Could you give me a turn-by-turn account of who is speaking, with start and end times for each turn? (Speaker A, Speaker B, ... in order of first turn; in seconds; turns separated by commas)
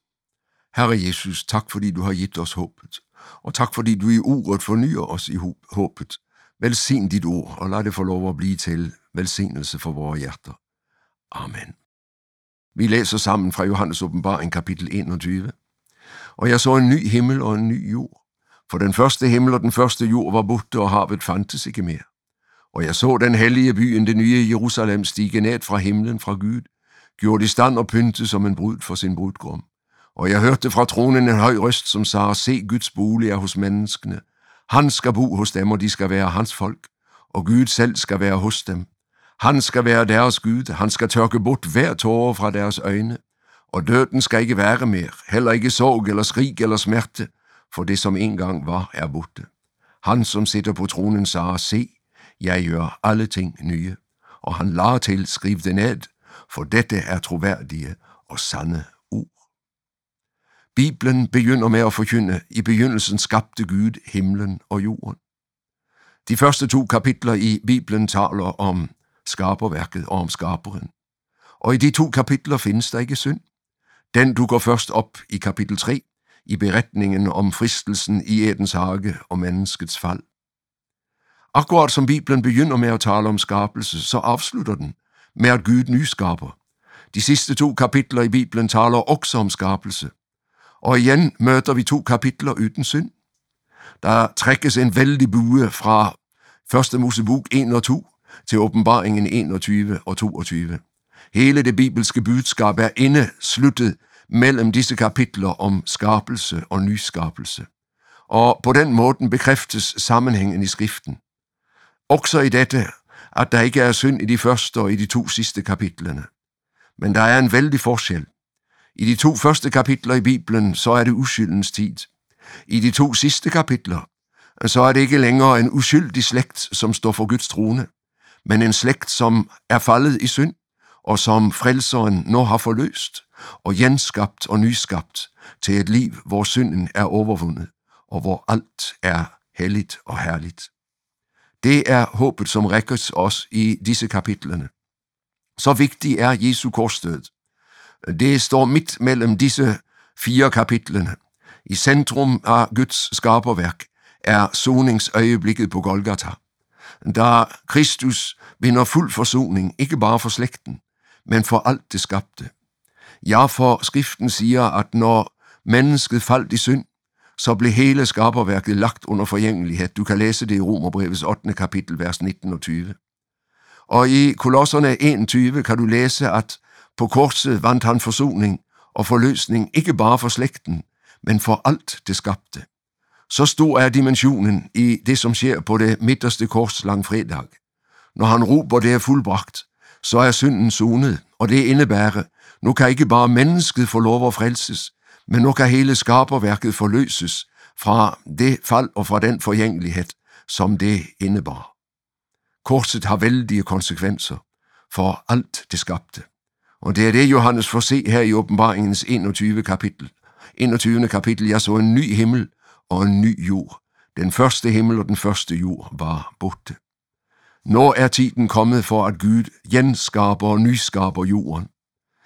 Speaker A: 0.7-10.6, Speaker A: 11.3-11.8, Speaker A: 12.8-15.6, Speaker A: 16.4-22.1, Speaker A: 22.7-38.9, Speaker A: 39.4-43.2, Speaker A: 43.7-49.5, Speaker A: 50.0-59.4, Speaker A: 60.7-65.2, Speaker A: 66.2-70.9, Speaker A: 71.6-73.4, Speaker A: 74.1-80.2, Speaker A: 81.5-86.5, Speaker A: 87.1-90.1, Speaker A: 90.8-93.1, Speaker A: 94.0-107.7, Speaker A: 108.3-111.2, Speaker A: 112.1-116.3, Speaker A: 117.0-118.3, Speaker A: 118.9-122.1, Speaker A: 122.7-127.9, Speaker A: 128.4-140.7, Speaker A: 141.6-144.7, Speaker A: 145.6-147.3, Speaker A: 148.0-156.4, Speaker A: 157.0-162.5, Speaker A: 163.2-173.0, Speaker A: 173.9-182.7, Speaker A: 183.3-187.6, Speaker A: 188.2-201.7, Speaker A: 202.6-206.3, Speaker A: 206.8-216.8, Speaker A: 217.7-221.7